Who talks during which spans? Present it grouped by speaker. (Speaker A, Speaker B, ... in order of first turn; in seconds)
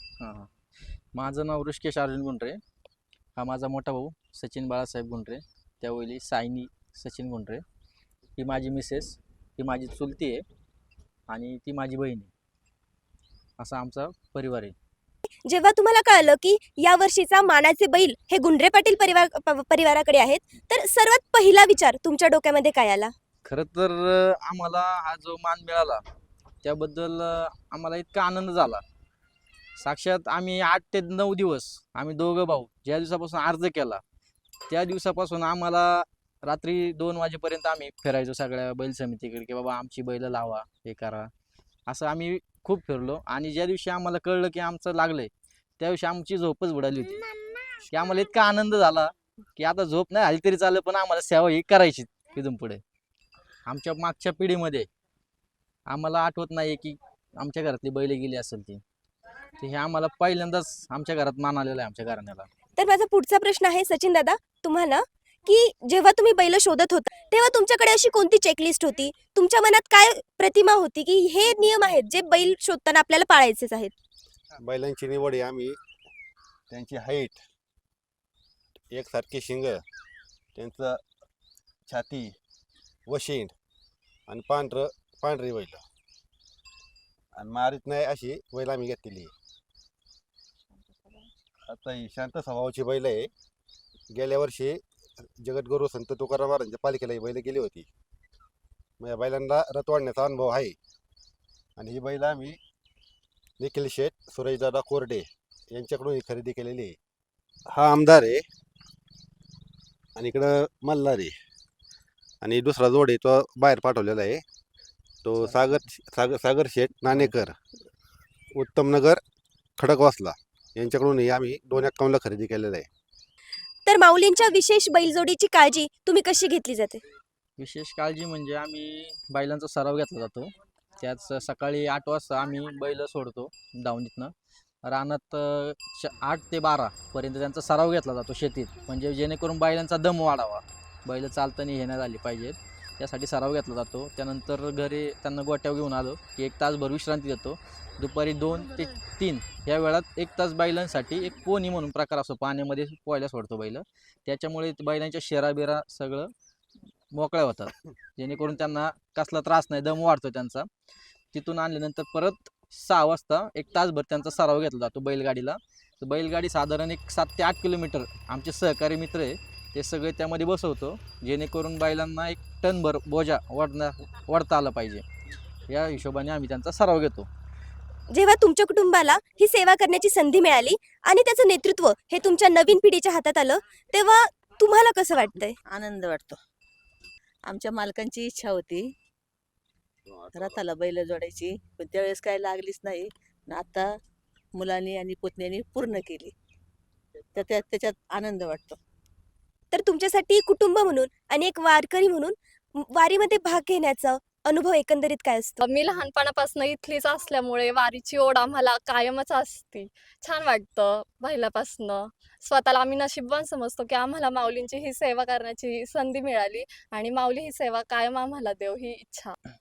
Speaker A: 0.2-0.5, 1.1-2.6, 3.4-7.6, 8.4-10.4, 11.3-12.3, 13.6-14.7, 23.4-26.0, 26.6-28.8, 29.8-34.0, 34.7-41.3, 41.9-47.2, 47.8-52.8, 53.6-54.9, 55.9-58.8, 59.6-62.5, 127.6-156.3, 157.1-160.7, 161.3-175.0, 175.7-177.3
Speaker B: 15.4-23.1, 62.8-73.9, 123.8-127.0, 178.1-185.6, 199.7-205.6
Speaker C: 74.6-75.7, 76.7-77.4, 78.9-79.8, 80.5-81.0, 81.9-82.3, 83.1-83.5, 84.3-85.8, 87.4-89.3, 91.7-93.3, 94.1-94.8, 95.4-97.9, 99.0-100.7, 101.8-102.6, 103.6-107.0, 107.7-108.4, 110.2-111.3, 112.4-114.4, 115.2-117.5, 118.5-119.2, 119.8-122.9, 190.1-190.6
Speaker D: 185.7-186.4, 187.4-188.9, 190.3-193.9, 194.5-196.3, 197.3-198.8
Speaker E: 205.6-219.3